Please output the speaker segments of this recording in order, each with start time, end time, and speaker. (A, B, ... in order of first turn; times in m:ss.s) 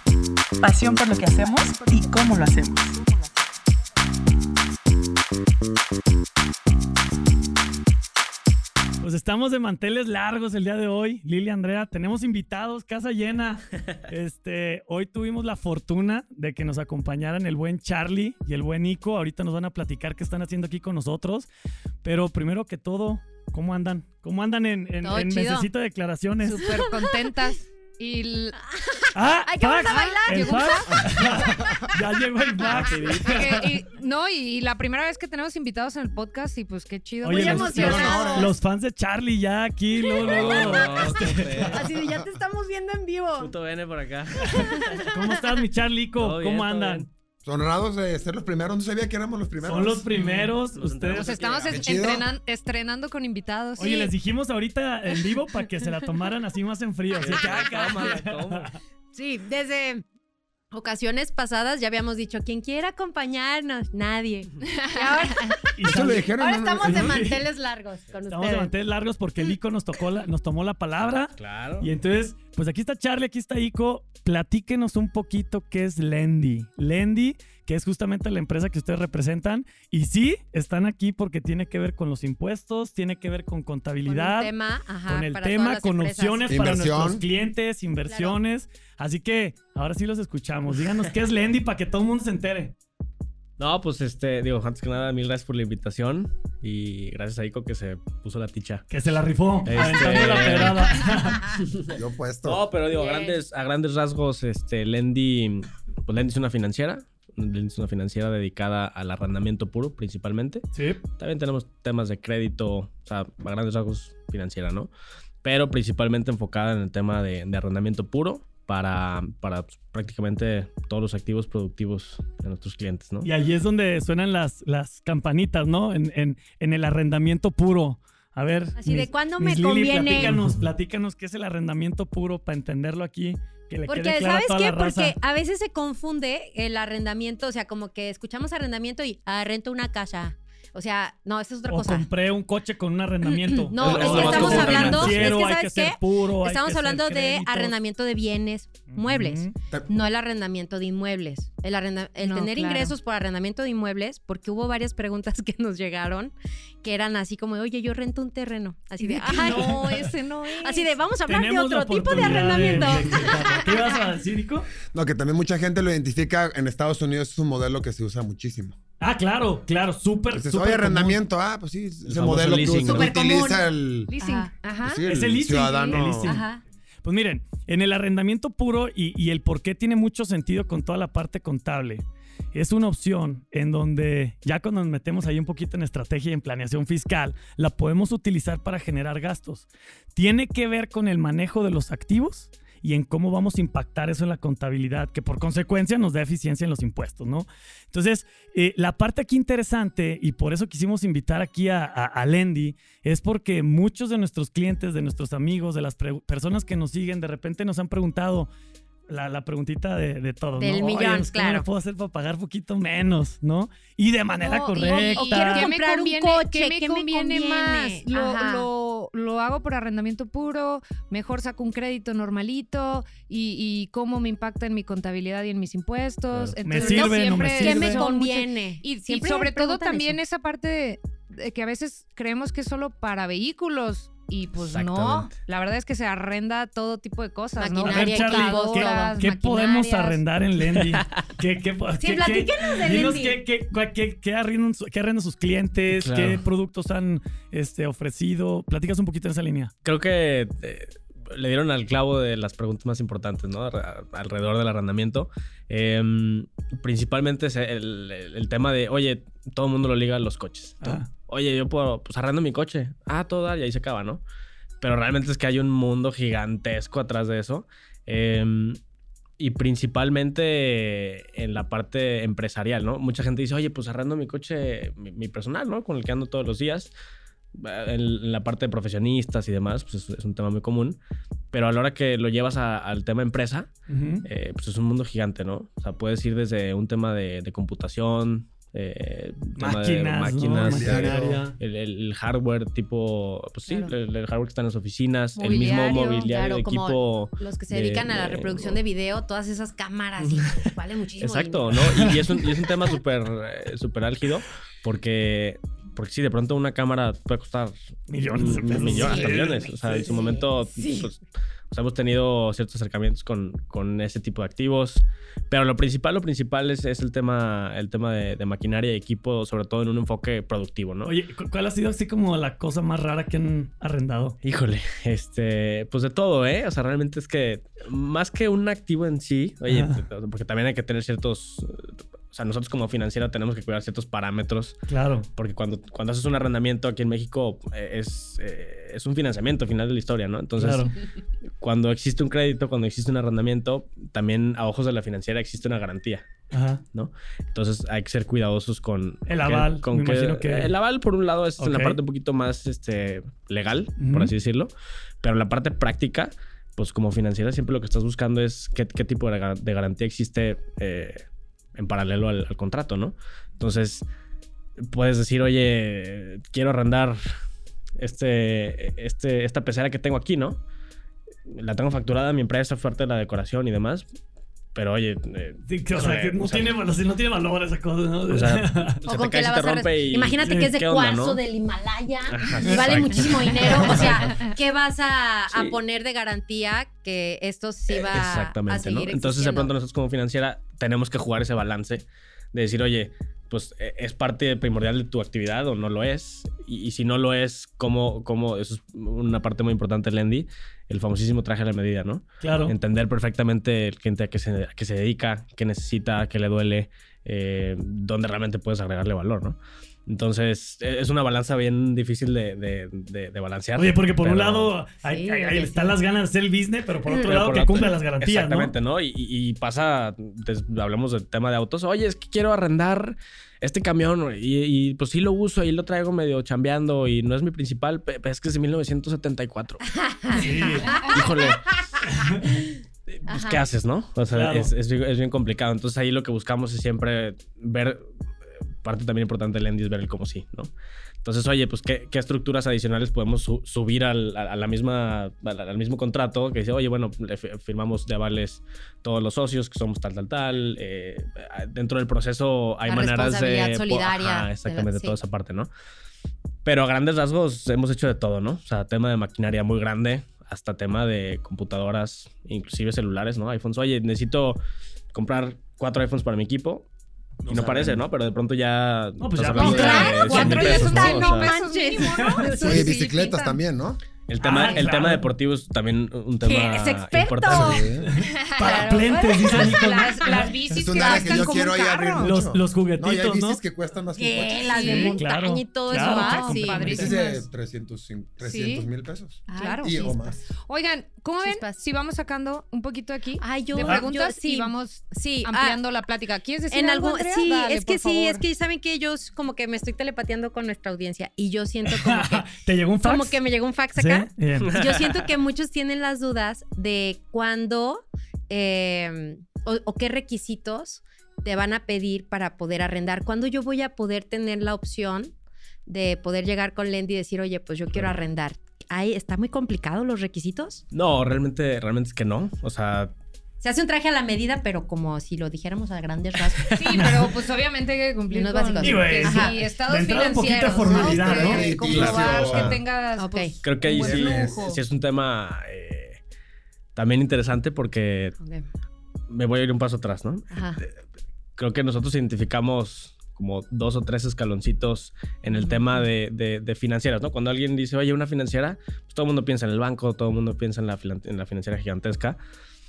0:00.6-0:03.0 A
0:09.0-0:21.5 B
0:22.0-0:26.7 B
0:25.0-0:25.7 C
0:26.4-0:28.6 D
0:26.6-0:27.3 C
0:28.9-0:31.2 C
0:29.1-0:33.8 B
0:29.8-0:31.1 D
0:31.5-0:31.8 E
0:32.7-0:33.2 F
0:33.2-0:38.3 D
0:37.2-0:41.8 B
0:37.3-0:38.5 C
0:37.7-0:38.5 E
0:40.0-0:43.5 C
0:40.2-0:41.9 F
0:43.4-0:45.0 F
0:44.4-0:45.2 C
0:44.6-0:47.0 B
0:46.2-0:47.1 F
0:47.4-0:50.0 E
0:49.6-0:51.4 B
0:50.1-0:52.0 F
0:51.1-0:54.1 D
0:51.7-0:52.2 E
0:53.8-0:58.8 B
0:57.2-0:58.7 F
0:59.1-1:00.0 C
1:00.7-1:05.6 C
1:04.7-1:05.5 D
1:05.8-1:06.3 B
1:05.8-1:07.2 E
1:06.4-1:08.7 C
1:06.8-1:07.4 B
1:08.3-1:24.5 B
1:11.4-1:11.9 F
1:24.1-1:26.5 C
1:25.1-1:32.7 B
1:26.5-1:27.2 E
1:28.0-1:28.4 C
1:33.6-1:38.8 F
1:38.9-1:41.4 B
1:39.6-1:40.9 F
1:41.5-1:50.6 F
1:41.9-1:42.6 E
1:42.9-1:43.4 C
1:50.7-1:51.0 B
1:51.2-1:54.9 F
1:55.4-2:03.3 F
2:03.2-2:15.1 B
2:08.8-2:10.4 C
2:13.9-2:22.0 C
2:21.7-2:27.7 B
2:23.2-2:44.0 C
2:23.8-2:25.2 F
2:28.9-2:29.5 B
2:32.2-2:32.9 D
2:39.0-2:40.9 D
2:39.3-2:40.1 B
2:41.3-2:44.7 B
2:44.9-2:48.8 E
2:49.0-2:51.2 B
2:50.3-2:54.1 E
2:52.0-2:53.1 F
2:52.8-2:53.6 C
2:54.1-2:55.0 D
2:54.2-2:54.5 C
2:54.8-2:56.4 E
2:55.1-2:56.4 B
2:56.2-2:56.6 C
2:57.0-3:28.5 B
3:29.1-3:35.7 B
3:30.6-3:31.6 C
3:34.4-4:00.2 D
3:34.9-3:38.7 C
3:46.6-3:48.1 B
3:46.7-3:50.2 C
3:54.6-3:55.3 F
3:57.6-3:59.2 C
3:57.8-4:09.7 B
4:00.8-4:01.1 F
4:02.0-4:03.4 C
4:05.9-4:06.4 F
4:09.8-4:24.2 F
4:20.8-4:21.1 B
4:24.8-4:28.8 F
4:29.4-4:36.9 F
4:37.5-4:41.0 F
4:41.5-4:43.7 F
4:43.9-4:44.2 B
4:44.2-4:58.8 F
4:49.6-4:51.6 B
4:50.4-4:51.4 E
4:53.7-4:53.9 C
4:55.4-5:01.6 C
5:00.2-5:00.6 F
5:01.2-5:07.7 F
5:01.9-5:02.2 B
5:08.1-5:09.7 B
5:08.4-5:11.2 F
5:08.8-5:11.1 C
5:11.7-5:21.1 F
5:21.0-5:24.4 B
5:24.4-5:34.8 F
5:29.6-5:30.0 B
5:34.9-5:35.3 B
5:35.4-5:40.9 F
5:40.6-5:40.9 B
5:41.6-5:46.3 F
5:46.5-5:46.8 B
5:46.9-5:54.7 F
5:49.3-5:50.7 B
5:51.6-5:52.0 B
5:54.0-5:54.3 B
5:55.2-6:04.0 F
6:04.8-6:07.2 F
6:08.0-6:10.6 F
6:11.5-6:14.0 F
6:14.7-6:16.8 F
6:15.7-6:19.0 B
6:18.3-6:21.4 F
6:19.1-6:29.7 C
6:20.4-6:20.7 B
6:22.3-6:24.3 F
6:23.8-6:24.1 B
6:25.5-6:25.8 F
6:27.9-6:54.7 F
6:42.4-6:42.8 B
6:53.8-6:58.7 B
6:55.1-6:56.0 C
6:57.1-7:09.8 F
7:09.9-7:11.7 C
7:10.3-7:11.0 B
7:11.1-7:11.8 F
7:12.0-7:12.4 B
7:13.1-7:18.0 F
7:13.3-7:13.6 C
7:14.3-7:14.7 B
7:18.8-7:20.7 F
7:21.2-7:35.7 F
7:32.8-7:35.2 C
7:36.6-7:44.6 F
7:45.1-7:46.8 F
7:47.4-7:48.0 B
7:47.5-7:51.5 F
7:49.2-7:50.8 B
7:49.6-7:52.9 C
7:49.6-7:53.6 D
7:52.0-7:52.4 B
7:52.6-7:54.0 E
7:54.3-7:57.9 F
7:54.4-7:55.3 B
7:54.6-7:55.0 D
7:56.4-7:57.8 C
7:57.4-7:58.1 E
7:58.0-8:00.8 B
7:58.3-8:02.3 D
7:58.6-8:00.0 C
8:00.7-8:05.2 E
8:01.0-8:01.6 C
8:02.2-8:03.6 B
8:04.2-8:07.2 C
8:04.6-8:05.2 D
8:04.8-8:07.1 B
8:05.9-8:07.4 D
8:06.8-8:10.4 E
8:08.4-8:08.8 D
8:09.5-8:10.3 C
8:09.5-8:10.0 D
8:10.6-8:18.4 D
8:11.4-8:11.8 C
8:13.4-8:15.8 C
8:16.7-8:22.5 C
8:21.8-8:23.4 B
8:23.0-8:35.3 C
8:24.0-8:24.8 B
8:24.7-8:25.3 F
8:35.9-8:40.8 C
8:40.9-8:43.1 F
8:43.6-8:47.0 C
8:46.7-8:54.8 D
8:46.8-8:47.3 B
8:48.3-8:49.6 C
8:48.8-8:51.7 B
8:50.8-8:52.8 E
8:51.7-8:52.8 F
8:53.2-8:53.5 C
8:53.6-8:56.2 F
8:53.9-8:54.7 E
8:57.0-8:58.4 F
8:58.4-8:58.6 C
8:59.3-9:00.9 F
9:00.5-9:00.8 C
9:01.6-9:12.4 F
9:05.5-9:05.9 C